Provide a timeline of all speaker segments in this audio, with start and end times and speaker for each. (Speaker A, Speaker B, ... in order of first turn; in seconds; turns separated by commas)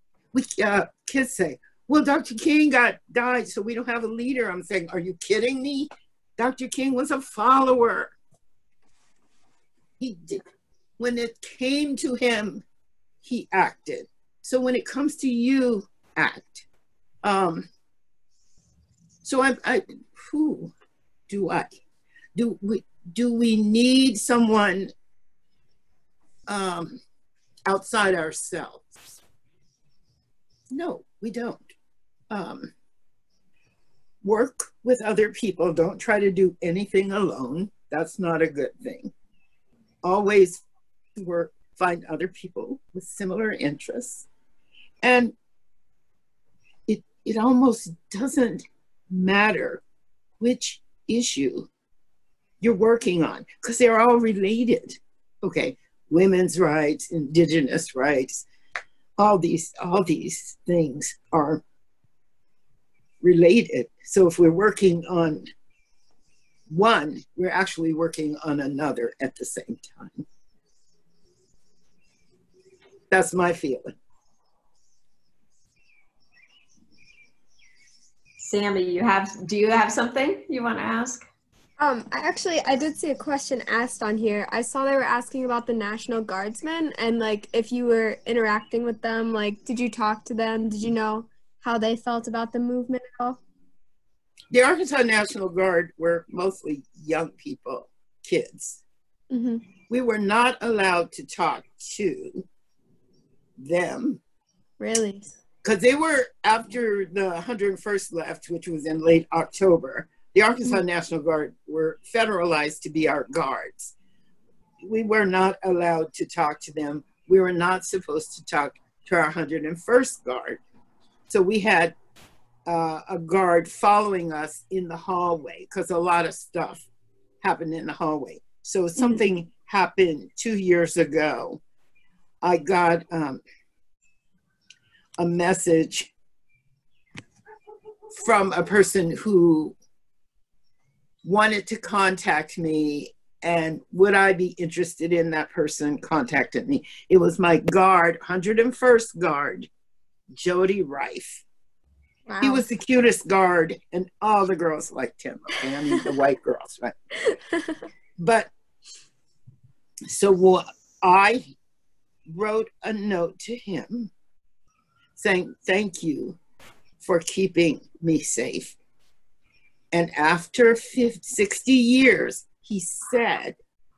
Speaker A: 0.3-8.1, Speaker A: 10.0-10.5, Speaker A: 11.0-12.7, Speaker A: 13.2-16.7, Speaker A: 17.2-17.7, Speaker A: 19.2-20.7, Speaker A: 21.3-21.7, Speaker A: 22.4-24.9, Speaker A: 26.5-27.0, Speaker A: 27.7-29.1, Speaker A: 30.7-31.7, Speaker A: 32.3-32.7, Speaker A: 34.2-39.1, Speaker A: 40.0-40.6, Speaker A: 41.2-44.3, Speaker A: 45.0-45.4, Speaker A: 46.9-49.8, Speaker A: 50.4-51.7, Speaker A: 52.6-58.5, Speaker A: 59.2-61.6, Speaker A: 63.2-65.4, Speaker A: 66.7-70.3, Speaker A: 73.1-73.9, Speaker B: 78.4-81.3, Speaker C: 81.8-93.4, Speaker A: 94.5-98.8, Speaker C: 99.3-99.6, Speaker A: 99.9-102.5, Speaker A: 103.6-104.2, Speaker C: 104.8-105.3, Speaker A: 105.6-113.9, Speaker A: 114.8-120.6, Speaker A: 121.3-122.0, Speaker A: 122.7-126.9, Speaker A: 127.4-131.6, Speaker A: 132.4-133.4, Speaker A: 135.2-136.1, Speaker A: 138.1-139.8, Speaker A: 141.2-149.7, Speaker A: 150.3-151.4, Speaker C: 152.3-152.7, Speaker A: 152.4-156.9, Speaker A: 158.2-158.5, Speaker A: 160.1-161.4, Speaker A: 162.3-164.1, Speaker A: 165.2-166.4, Speaker A: 167.0-168.8, Speaker A: 169.9-173.6